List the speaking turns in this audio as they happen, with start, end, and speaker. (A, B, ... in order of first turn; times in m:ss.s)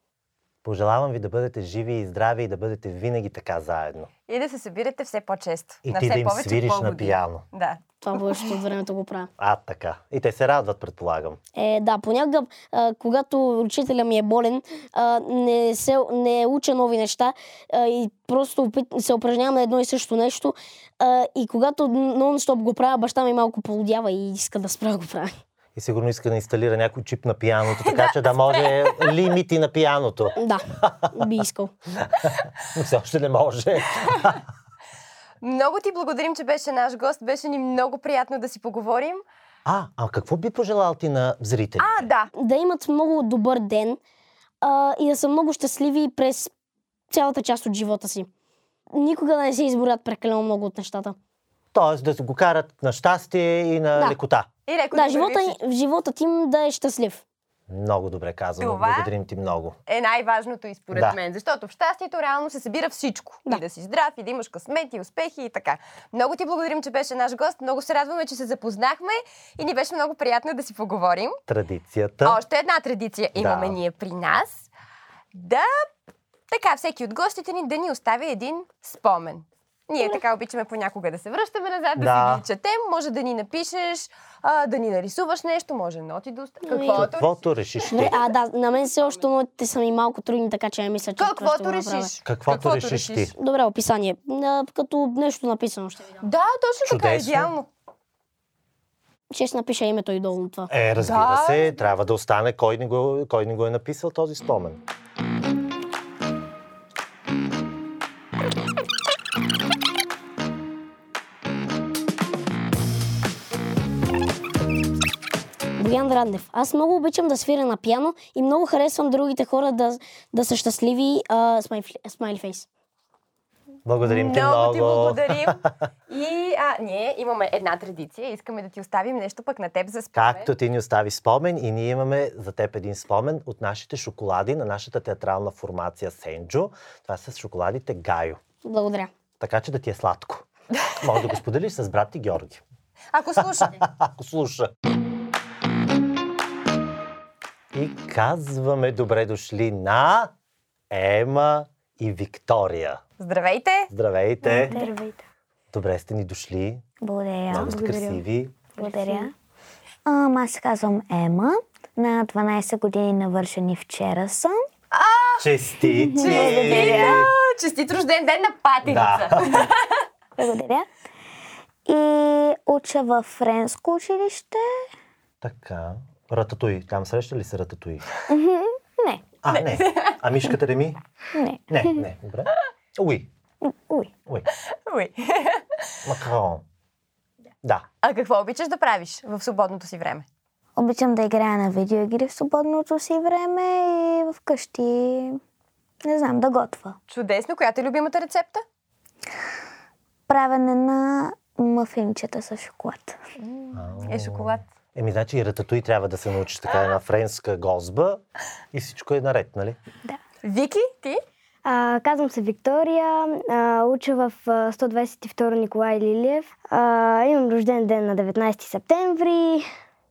0:00.6-0:04.1 A
0:04.3-0:08.5 B
0:05.8-0:07.4 A
0:08.0-0:09.3 C
0:09.4-0:11.4 A
0:11.6-0:25.3 C
0:25.8-0:31.2 A
0:27.8-0:29.2 B
0:30.4-0:31.7 C
0:32.0-0:34.4 A
0:35.4-0:39.2 B
0:39.6-0:42.1 A
0:41.8-0:42.3 B
0:42.3-0:44.0 C
0:44.6-0:46.5 C
0:47.1-0:48.3 C
0:48.9-0:51.2 C
0:51.7-0:54.5 A
0:54.7-0:55.6 B
0:54.9-0:57.2 C
0:57.7-0:59.8 A
0:58.6-0:59.1 B
0:59.9-1:11.4 B
1:00.9-1:01.2 A
1:11.5-1:12.4 A
1:12.2-1:14.7 B
1:13.4-1:13.8 A
1:15.3-1:15.9 B
1:16.5-1:27.4 B
1:22.0-1:22.4 A
1:26.7-1:27.1 C
1:26.9-1:28.2 A
1:27.9-1:32.1 C
1:31.2-1:33.3 B
1:32.2-1:33.3 A
1:33.4-1:36.2 C
1:36.2-1:37.7 B
1:36.8-1:37.5 A
1:39.3-1:40.7 C
1:40.7-1:44.8 A
1:41.0-1:41.7 B
1:55.8-2:02.6 C
2:03.8-2:05.7 A
2:04.0-2:10.5 B
2:10.1-2:18.4 A
2:18.6-2:19.1 C
2:19.4-2:20.4 A
2:21.0-2:22.6 A
2:23.1-2:23.8 B
2:23.4-2:24.7 A
2:27.7-2:30.3 A
2:30.9-2:33.0 A
2:33.2-2:33.9 B
2:33.9-2:34.8 A
2:34.5-2:35.2 D
2:34.6-2:34.9 E
2:35.7-2:36.8 A
2:37.0-2:38.1 E
2:37.5-2:38.6 A
2:37.7-2:38.2 D
2:38.8-2:39.3 E
2:38.8-2:39.3 D
2:40.0-2:44.6 E
2:44.9-2:45.5 B
2:45.4-2:47.3 A
2:45.8-2:47.2 E
2:46.1-2:50.0 B
2:48.8-2:49.7 A
2:50.4-2:50.8 E
2:51.8-2:54.8 E
2:55.4-2:58.1 A
2:58.3-2:59.3 E
2:59.4-3:01.0 A
2:59.5-3:00.2 B
3:01.3-3:02.0 E
3:01.7-3:03.3 A
3:03.6-3:04.1 E
3:04.8-3:05.8 B
3:06.0-3:06.6 A
3:08.0-3:10.2 B
3:10.8-3:15.4 E
3:16.0-3:17.0 E
3:17.1-3:18.6 B
3:20.3-3:23.2 E
3:23.7-3:28.2 A
3:24.0-3:24.6 B
3:28.7-3:29.8 A
3:30.4-3:31.2 B
3:31.6-3:39.6 D